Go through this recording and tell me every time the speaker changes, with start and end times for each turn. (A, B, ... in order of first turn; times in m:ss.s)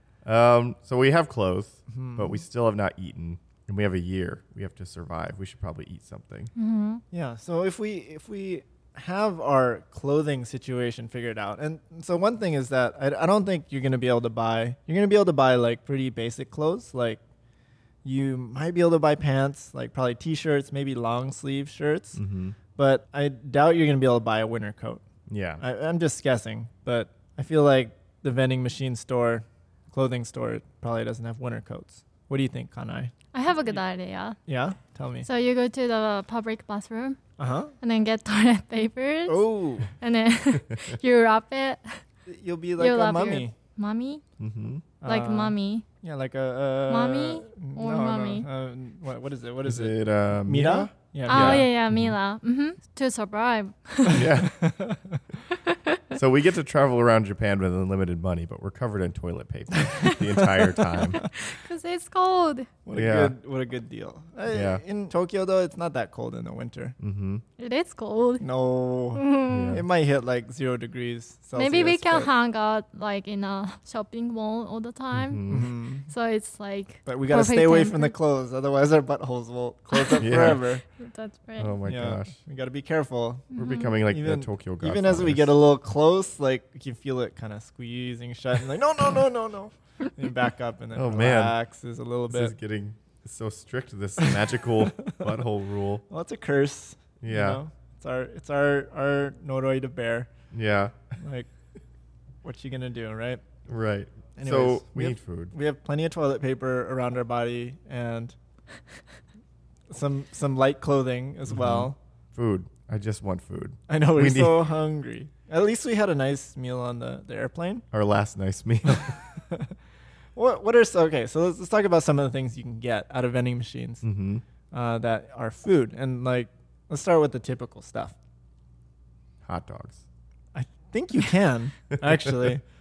0:00.2-0:06.5 A
0:01.9-0:02.4 B
0:06.6-0:07.0 C
0:07.1-0:17.2 B
0:18.0-0:22.2 B
0:22.2-0:22.6 A
0:22.8-0:25.0 B
0:25.3-0:25.6 A
0:25.6-0:33.1 B
0:33.3-0:34.4 C
0:34.5-0:35.3 B
0:35.2-0:37.2 C
0:37.4-0:37.7 B
0:37.8-0:42.0 C
0:39.3-0:39.9 B
0:42.3-0:43.5 B
0:42.8-0:44.2 C
0:44.4-0:44.8 A
0:45.0-0:51.7 B
0:45.0-0:45.8 C
0:46.9-0:48.5 C
0:49.6-0:52.1 A
0:51.3-0:54.2 C
0:54.0-0:55.2 B
0:54.1-0:54.5 A
0:55.5-0:56.2 C
0:56.1-1:01.2 A
1:00.0-1:01.3 B
1:01.0-1:02.7 C
1:02.8-1:07.0 B
1:02.9-1:03.3 A
1:04.5-1:04.8 A
1:07.0-1:07.4 A
1:07.6-1:08.4 C
1:08.4-1:12.3 B
1:09.1-1:09.8 C
1:09.5-1:09.8 A
1:11.5-1:18.1 C
1:15.1-1:15.7 A
1:15.5-1:16.1 B
1:17.0-1:20.8 B
1:19.9-1:21.8 C
1:20.2-1:20.6 A
1:21.6-1:22.4 A
1:21.8-1:23.5 B
1:23.5-1:23.9 C
1:23.6-1:25.5 A
1:24.1-1:32.5 B
1:30.9-1:31.5 A
1:32.3-1:36.0 A
1:34.2-1:35.2 B
1:36.1-1:40.3 B
1:37.2-1:37.6 A
1:40.5-1:41.0 A
1:41.2-1:41.5 B
1:42.4-1:43.4 B
1:43.7-1:45.5 A
1:44.4-1:48.4 B
1:49.9-1:52.0 B
1:51.5-1:54.7 A
1:53.9-1:57.8 B
1:57.9-1:59.2 A
1:58.9-1:59.7 B
2:00.4-2:04.0 B
2:04.0-2:04.4 A
2:04.7-2:08.1 B
2:09.4-2:10.0 A
2:10.5-2:12.6 B
2:11.9-2:12.5 A